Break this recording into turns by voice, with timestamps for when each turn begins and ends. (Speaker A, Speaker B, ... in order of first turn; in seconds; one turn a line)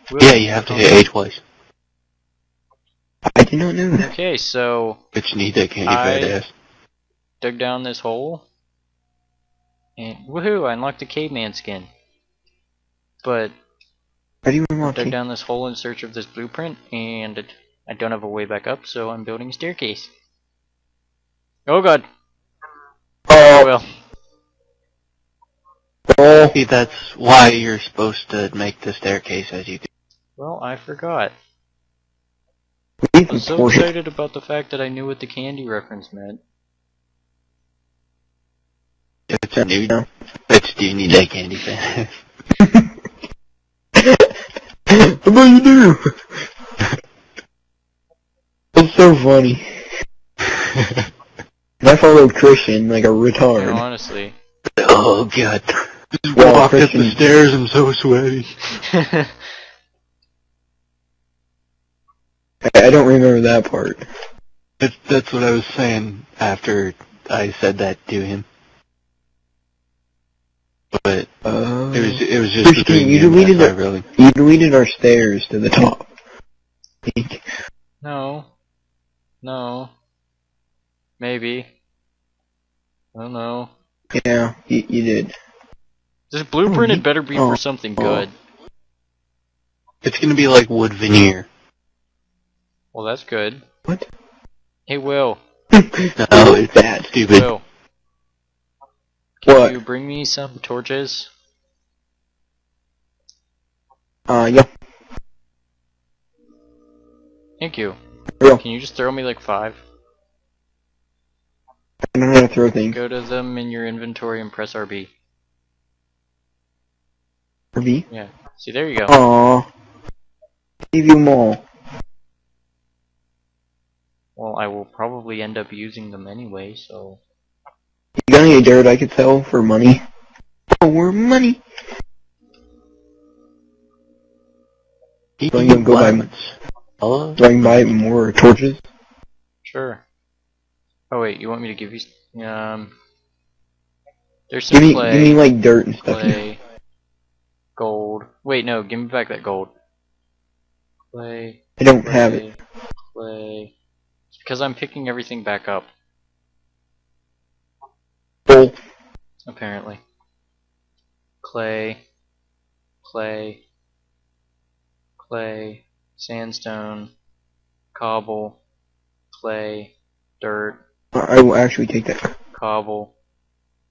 Speaker A: 0.1-1.0
Speaker B: 0.2-1.4
Speaker C: 3.3-4.1
Speaker A: 4.0-5.0
Speaker B: 5.1-6.5
Speaker A: 5.8-6.4
Speaker A: 7.4-8.4
Speaker A: 10.0-11.9
Speaker A: 13.2-13.5
Speaker C: 14.4-15.1
Speaker A: 14.8-20.1
Speaker A: 21.7-22.0
Speaker C: 23.3-23.7
Speaker A: 23.3-23.9
Speaker C: 26.1-26.6
Speaker B: 26.5-29.9
Speaker A: 30.4-31.3
Speaker C: 33.0-33.9
Speaker A: 33.3-36.4
Speaker B: 39.3-39.9
Speaker C: 39.5-40.1
Speaker B: 40.5-42.1
Speaker C: 42.6-42.9
Speaker C: 44.0-44.3
Speaker C: 44.9-46.1
Speaker C: 48.7-49.8
Speaker B: 50.6-51.0
Speaker C: 51.8-53.8
Speaker A: 53.5-54.3
Speaker B: 54.8-58.7
Speaker C: 56.3-57.2
Speaker A: 58.9-59.3
Speaker C: 62.6-64.1
Speaker B: 64.8-68.5
Speaker B: 70.9-71.3
Speaker C: 71.4-76.1
Speaker B: 71.9-74.1
Speaker C: 77.0-77.4
Speaker A: 78.0-78.5
Speaker A: 79.4-79.9
Speaker A: 81.2-81.7
Speaker A: 83.1-83.7
Speaker C: 84.1-85.3
Speaker A: 86.3-88.3
Speaker C: 86.7-88.2
Speaker B: 90.0-91.5
Speaker A: 92.9-93.6
Speaker A: 94.9-95.4
Speaker C: 95.7-97.1
Speaker B: 96.2-97.5
Speaker A: 97.3-97.6
Speaker A: 99.4-101.3
Speaker C: 99.5-99.8
Speaker C: 104.3-104.7
Speaker A: 107.6-108.0
Speaker A: 108.5-109.8
Speaker C: 112.1-113.0
Speaker A: 112.9-115.1
Speaker C: 117.7-118.0
Speaker A: 118.1-119.2
Speaker C: 119.1-119.7
Speaker C: 120.9-121.6
Speaker A: 124.3-127.2
Speaker C: 128.2-130.0
Speaker C: 130.7-131.6
Speaker B: 135.4-137.9
Speaker C: 135.5-136.3
Speaker C: 137.4-138.8
Speaker A: 139.6-140.0
Speaker A: 141.1-142.9
Speaker A: 144.5-145.4
Speaker C: 144.7-146.4
Speaker A: 146.0-146.6
Speaker A: 147.8-149.7
Speaker A: 151.1-152.6
Speaker C: 151.8-152.4
Speaker A: 153.1-153.7
Speaker A: 154.3-155.9
Speaker C: 158.5-158.8
Speaker A: 159.5-160.0
Speaker A: 161.4-162.0
Speaker A: 163.0-163.6
Speaker A: 165.2-167.1
Speaker A: 167.9-168.6
Speaker A: 169.3-170.8
Speaker C: 171.1-172.3
Speaker A: 172.5-173.1